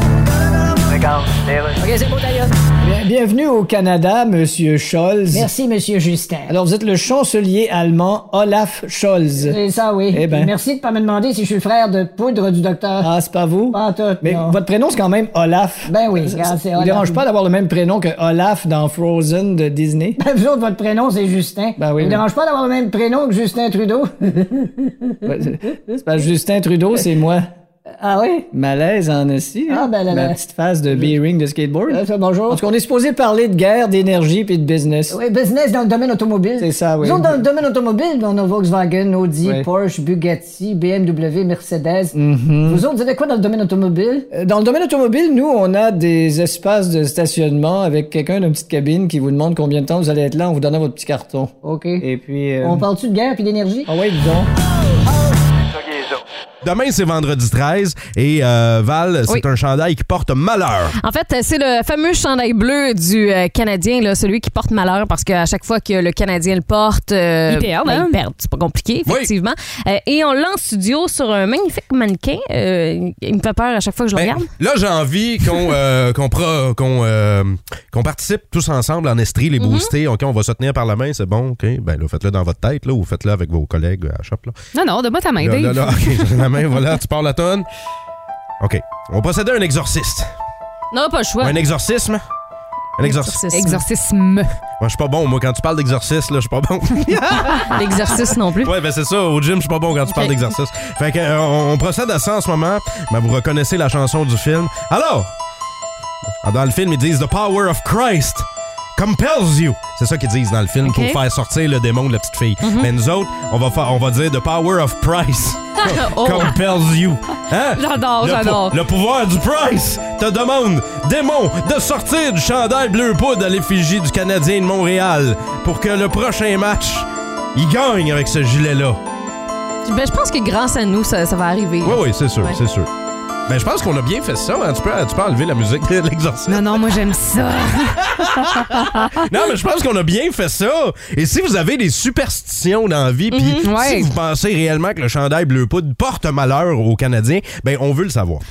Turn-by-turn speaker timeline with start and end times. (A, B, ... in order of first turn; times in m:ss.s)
0:00.8-0:02.5 A
0:02.8-0:05.5 B
0:05.3-0:06.6 A
0:06.5-0:10.5 B
0:09.4-0:13.1 A
0:13.0-0:20.2 B
0:13.7-0:14.6 A
0:15.9-0:17.2 A
0:20.2-0:24.9 A
0:21.8-0:22.2 B
0:25.2-0:27.5 B
0:28.0-0:28.5 A
0:28.5-0:35.2 B
0:29.7-0:30.4 A
0:31.9-0:32.6 A
0:35.1-0:44.3 A
0:36.6-0:37.4 B
0:39.4-0:39.7 B
0:42.1-0:42.8 B
0:44.3-0:52.9 B
0:51.6-0:52.0 A
0:52.6-0:53.9 A
0:53.9-0:54.5 B
0:56.6-1:01.0 C
1:01.0-1:14.5 D
1:07.5-1:08.2 E
1:09.0-1:09.3 C
1:14.2-1:24.6 C
1:19.6-1:19.9 D
1:24.7-1:26.5 E
1:25.4-1:27.7 C
1:28.6-1:30.3 C
1:30.9-1:31.6 D
1:31.4-1:32.2 C
1:33.0-1:33.4 C
1:33.0-1:33.8 D
1:33.5-1:34.5 E
1:34.8-1:45.3 C
1:37.7-1:38.7 D
1:40.1-1:40.4 D
1:46.4-2:09.0 C
1:50.8-1:51.2 E
1:52.6-1:52.9 D
1:55.8-1:56.6 D
1:57.8-1:58.8 E
2:09.8-2:12.6 D
2:11.8-2:12.9 C
2:13.5-2:16.8 C
2:16.5-2:19.2 E
2:18.1-2:28.4 C
2:23.3-2:23.7 D
2:23.6-2:24.1 E